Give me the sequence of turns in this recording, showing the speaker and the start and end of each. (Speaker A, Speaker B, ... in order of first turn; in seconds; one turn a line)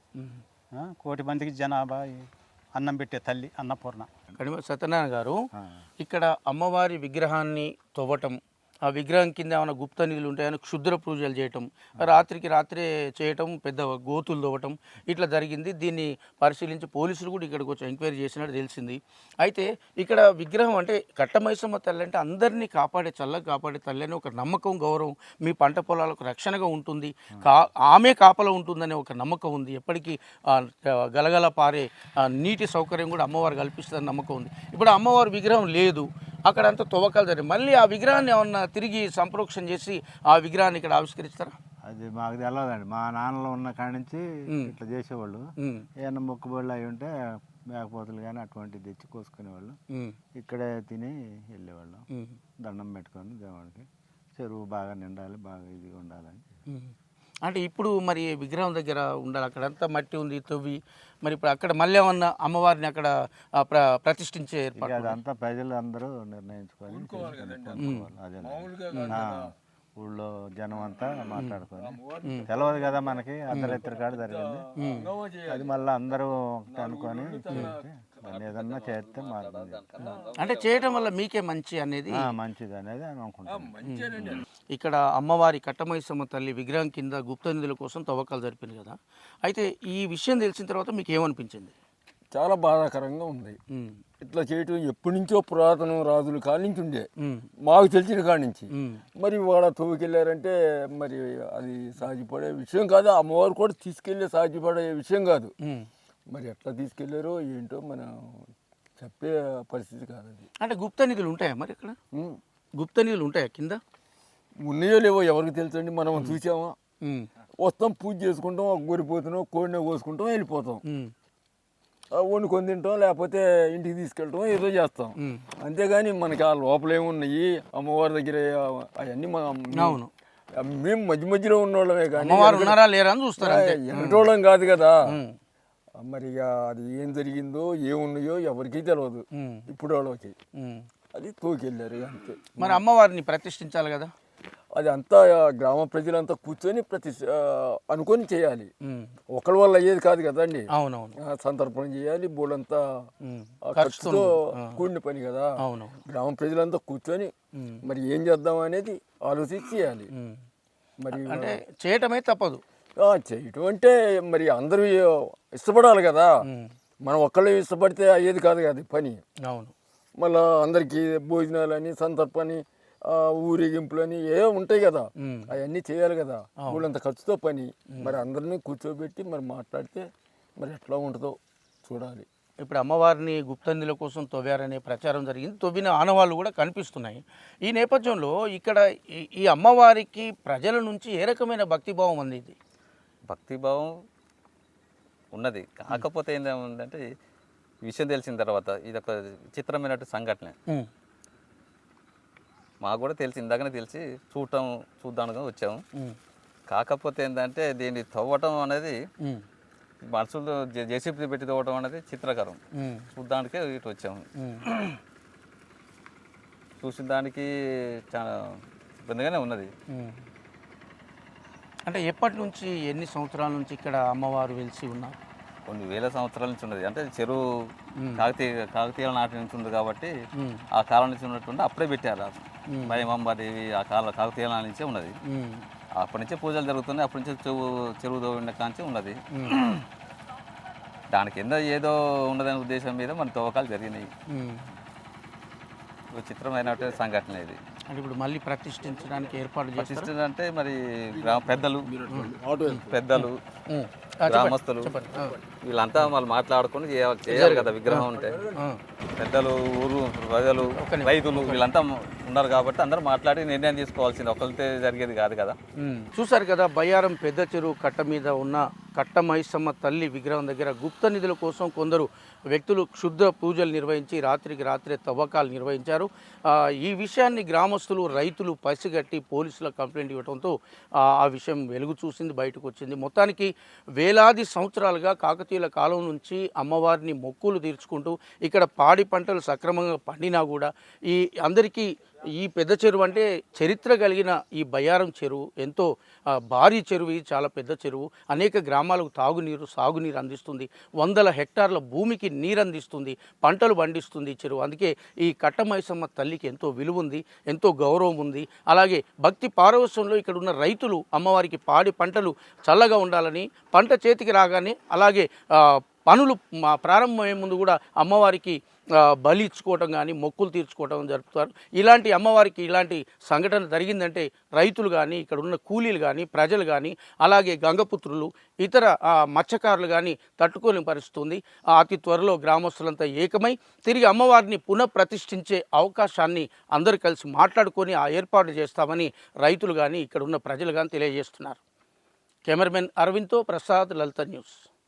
Speaker A: 0.2-0.4
Speaker B: 0.7-4.1
Speaker A: 4.4-5.4
Speaker A: 6.0-41.6
Speaker C: 41.8-45.4
Speaker A: 45.6-45.9
Speaker C: 46.0-47.1
Speaker C: 47.7-49.8
Speaker C: 50.4-52.0
Speaker A: 52.1-52.4
Speaker C: 52.6-53.9
Speaker C: 54.4-56.4
Speaker A: 57.4-65.2
Speaker C: 64.8-74.6
Speaker D: 66.9-67.9
Speaker A: 67.8-68.0
Speaker D: 68.4-69.5
Speaker D: 71.8-75.7
Speaker A: 73.5-73.8
Speaker A: 74.8-75.0
Speaker C: 75.5-79.8
Speaker D: 76.7-77.8
Speaker E: 78.3-80.6
Speaker D: 80.0-80.7
Speaker A: 80.3-82.3
Speaker C: 82.2-83.7
Speaker D: 83.5-84.4
Speaker A: 83.8-84.2
Speaker A: 84.7-91.7
Speaker D: 92.3-93.6
Speaker D: 94.2-97.1
Speaker A: 97.2-97.5
Speaker D: 97.6-105.5
Speaker A: 98.8-99.0
Speaker D: 106.3-108.4
Speaker D: 109.0-110.4
Speaker A: 110.6-112.0
Speaker A: 112.8-113.8
Speaker D: 114.6-116.7
Speaker D: 117.6-120.8
Speaker D: 122.1-130.0
Speaker A: 129.8-130.1
Speaker D: 130.6-132.8
Speaker A: 132.2-134.3
Speaker D: 133.4-135.0
Speaker A: 135.1-135.3
Speaker D: 136.0-140.3
Speaker A: 139.4-139.7
Speaker A: 140.6-140.8
Speaker D: 141.1-142.8
Speaker A: 142.6-144.1
Speaker D: 144.8-148.7
Speaker A: 148.8-149.1
Speaker D: 149.3-150.6
Speaker A: 150.7-151.2
Speaker D: 151.2-152.8
Speaker A: 153.2-154.8
Speaker D: 153.7-155.5
Speaker A: 155.6-156.0
Speaker D: 156.1-157.3
Speaker A: 157.6-157.8
Speaker D: 157.8-160.1
Speaker D: 161.0-161.6
Speaker A: 161.1-162.6
Speaker D: 163.0-166.3
Speaker D: 167.0-169.2
Speaker A: 169.5-169.7
Speaker D: 170.2-182.2
Speaker A: 175.2-175.5
Speaker A: 182.6-192.6
Speaker E: 193.3-193.9
Speaker E: 195.3-197.0
Speaker E: 197.8-200.6
Speaker E: 202.8-205.8
Speaker E: 206.7-208.9
Speaker E: 210.1-212.6
Speaker A: 212.8-213.1
Speaker E: 213.1-214.2
Speaker A: 214.4-214.8
Speaker E: 216.8-217.5
Speaker E: 219.0-219.7
Speaker A: 219.9-220.2
Speaker A: 221.9-225.2
Speaker E: 225.7-230.1
Speaker A: 228.0-228.2
Speaker A: 230.4-230.6
Speaker E: 230.8-235.2
Speaker A: 232.7-233.0
Speaker A: 235.2-235.7
Speaker E: 236.0-239.8
Speaker E: 241.1-244.1
Speaker A: 244.3-244.7
Speaker E: 246.1-247.6
Speaker A: 247.9-250.1
Speaker E: 249.8-251.9
Speaker D: 251.2-252.9
Speaker A: 252.1-255.3
Speaker E: 252.9-253.4
Speaker E: 254.3-254.9
Speaker E: 255.6-258.4
Speaker A: 257.3-258.8
Speaker D: 258.1-258.6
Speaker E: 259.2-265.6
Speaker A: 260.8-261.6
Speaker A: 265.8-341.6
Speaker A: 342.4-344.6